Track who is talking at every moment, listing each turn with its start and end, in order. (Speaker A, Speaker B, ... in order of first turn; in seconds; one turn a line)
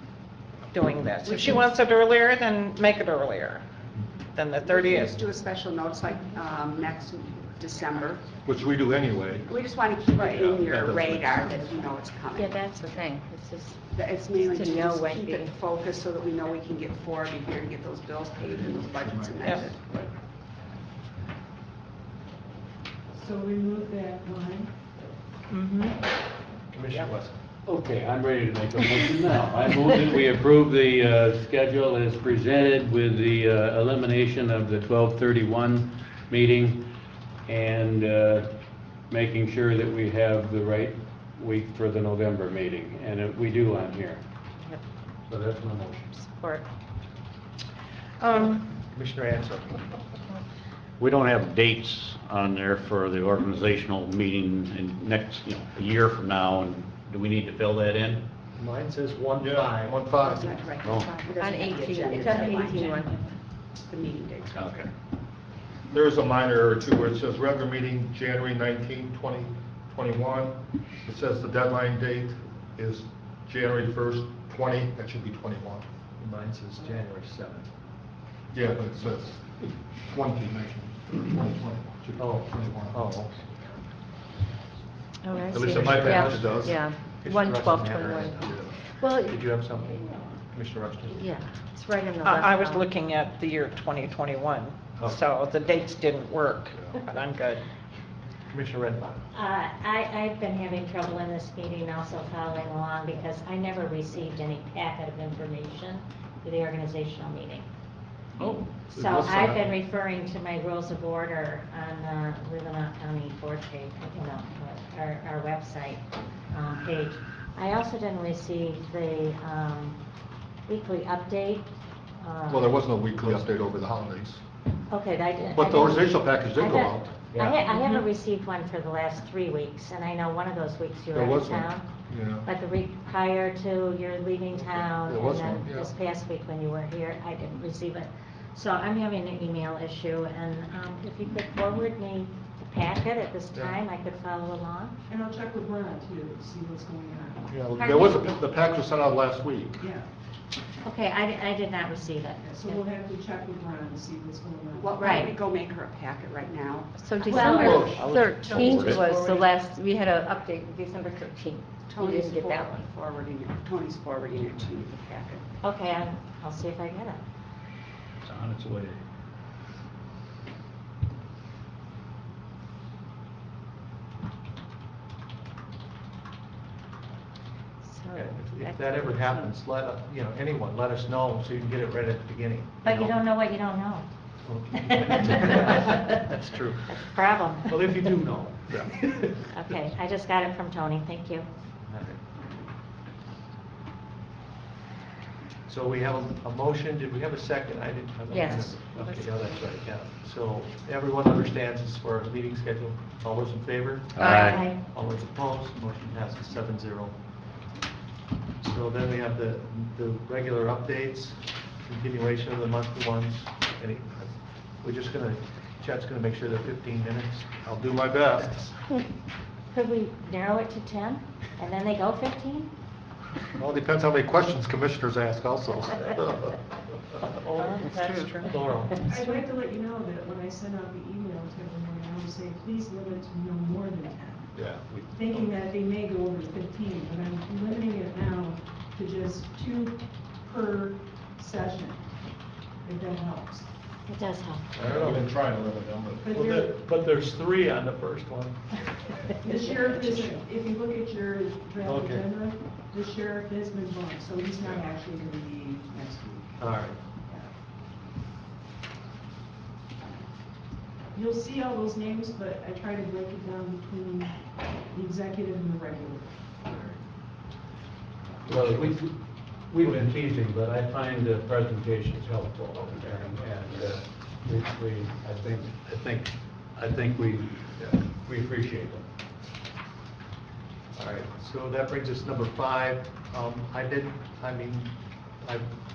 Speaker A: 0.7-3.6
Speaker B: 1.2-1.7
Speaker A: 4.3-5.2
Speaker B: 4.6-8.4
Speaker C: 8.4-9.6
Speaker B: 9.5-12.7
Speaker C: 10.2-11.7
Speaker D: 12.6-13.8
Speaker B: 13.9-20.1
Speaker D: 14.3-15.5
Speaker C: 19.1-19.7
Speaker A: 19.4-19.7
Speaker E: 23.1-24.7
Speaker A: 25.5-25.9
Speaker F: 26.7-27.4
Speaker G: 27.6-36.9
Speaker G: 37.5-38.5
Speaker G: 39.1-44.2
Speaker G: 45.3-46.2
Speaker D: 46.2-46.6
Speaker A: 48.2-48.6
Speaker F: 48.5-49.8
Speaker H: 51.0-58.2
Speaker F: 58.5-60.2
Speaker C: 59.4-60.7
Speaker B: 60.1-62.9
Speaker H: 60.8-61.1
Speaker D: 61.2-63.3
Speaker F: 62.4-63.1
Speaker B: 63.9-64.7
Speaker H: 64.5-64.9
Speaker C: 65.9-75.9
Speaker F: 76.2-77.7
Speaker C: 78.5-83.2
Speaker F: 82.2-83.5
Speaker D: 85.2-88.4
Speaker C: 85.5-86.8
Speaker F: 85.5-91.3
Speaker C: 88.4-88.8
Speaker D: 89.0-89.4
Speaker D: 91.1-92.8
Speaker A: 92.2-97.6
Speaker F: 98.5-99.3
Speaker I: 99.3-107.7
Speaker C: 108.4-109.7
Speaker I: 108.9-120.0
Speaker I: 120.7-122.8
Speaker C: 122.5-124.4
Speaker I: 124.9-144.9
Speaker C: 125.5-127.3
Speaker F: 127.3-127.6
Speaker C: 131.1-132.5
Speaker C: 134.6-135.9
Speaker E: 145.1-147.6
Speaker C: 147.5-149.8
Speaker E: 149.8-150.1
Speaker I: 150.8-152.8
Speaker E: 152.4-155.2
Speaker B: 154.8-157.8
Speaker D: 157.0-162.8
Speaker I: 157.3-157.8
Speaker C: 157.5-158.8
Speaker F: 157.7-158.1
Speaker H: 158.0-159.0
Speaker E: 158.4-159.2
Speaker B: 161.8-165.5
Speaker I: 165.6-167.2
Speaker H: 168.2-168.9
Speaker D: 177.9-179.4
Speaker F: 178.1-183.2
Speaker I: 182.8-184.1
Speaker F: 184.4-186.8
Speaker I: 184.7-186.2
Speaker I: 186.9-187.7
Speaker F: 187.6-189.3
Speaker I: 189.5-191.5
Speaker F: 191.9-192.2
Speaker F: 195.7-207.2
Speaker D: 198.3-199.3
Speaker H: 204.1-204.7
Speaker D: 204.2-204.7
Speaker I: 204.3-204.7
Speaker F: 208.6-218.8
Speaker I: 219.7-222.7
Speaker C: 223.6-226.5
Speaker A: 227.6-228.5
Speaker I: 227.6-227.9
Speaker F: 227.7-229.1
Speaker E: 229.1-234.6
Speaker I: 229.1-229.3
Speaker C: 234.6-234.9
Speaker E: 235.1-242.1
Speaker E: 242.8-243.7
Speaker I: 244.1-244.6
Speaker F: 244.7-245.4
Speaker C: 244.8-246.3
Speaker E: 246.2-246.7
Speaker F: 246.3-248.8
Speaker E: 249.4-257.5
Speaker F: 249.7-250.4
Speaker F: 251.8-252.3
Speaker F: 256.6-257.0
Speaker E: 261.1-266.3
Speaker F: 266.6-266.9
Speaker G: 268.4-279.0
Speaker F: 268.5-268.9
Speaker F: 280.9-285.7